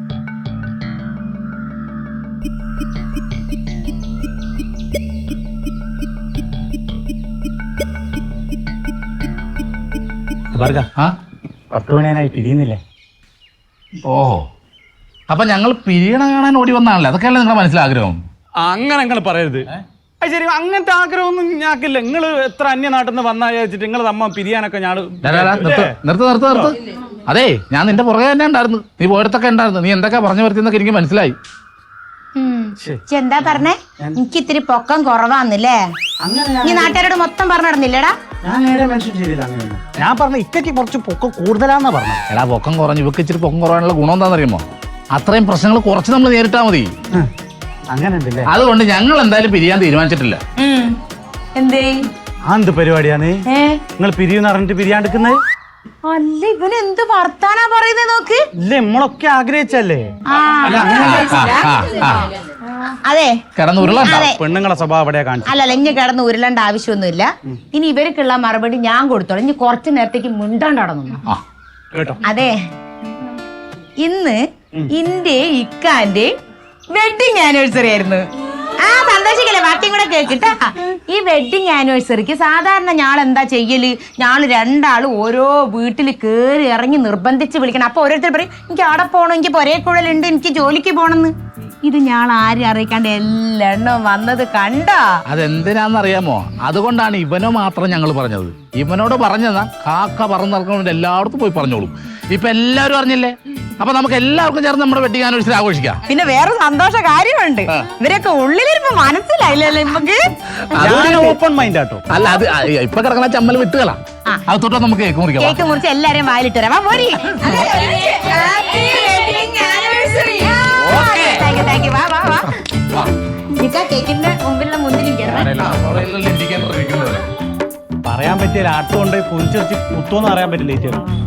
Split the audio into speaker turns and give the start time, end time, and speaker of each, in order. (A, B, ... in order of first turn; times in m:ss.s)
0:10.5-0:10.9 A
0:11.7-0:12.8 A
0:14.0-0:14.4 B
0:15.3-0:18.2 B
0:18.6-0:19.7 A
0:20.2-0:26.0 A
0:25.2-0:31.3 B
0:32.4-0:35.8 C
0:36.2-0:37.0 A
0:36.6-0:38.1 C
0:38.4-0:42.3 A
0:42.3-0:44.6 B
0:45.1-0:46.9 B
0:47.9-0:48.5 A
0:48.5-0:50.4 B
0:50.6-0:51.0 C
0:51.6-0:51.9 C
0:52.5-0:53.4 A
0:53.5-0:53.8 C
0:54.0-0:55.4 A
0:56.0-0:58.4 C
0:58.6-1:00.0 A
1:00.3-1:02.0 C
1:00.6-1:01.6 A
1:01.0-1:02.3 B
1:02.8-1:04.4 C
1:03.6-1:04.3 B
1:04.3-1:05.6 A
1:05.4-1:11.2 C
1:11.9-1:12.2 A
1:12.2-1:12.6 C
1:14.0-1:14.4 C
1:14.9-1:16.3 C
1:16.9-1:18.3 C
1:18.8-1:35.2 C
1:35.3-1:46.0 B
1:46.0-1:50.2 C
1:50.7-1:51.3 B
1:50.8-1:52.0 A
1:52.1-1:55.6 B
1:55.4-2:02.6 C
1:57.3-1:57.7 B
2:00.7-2:01.4 B
2:03.6-2:05.6 C
2:05.2-2:07.2 B
2:08.0-2:11.0 A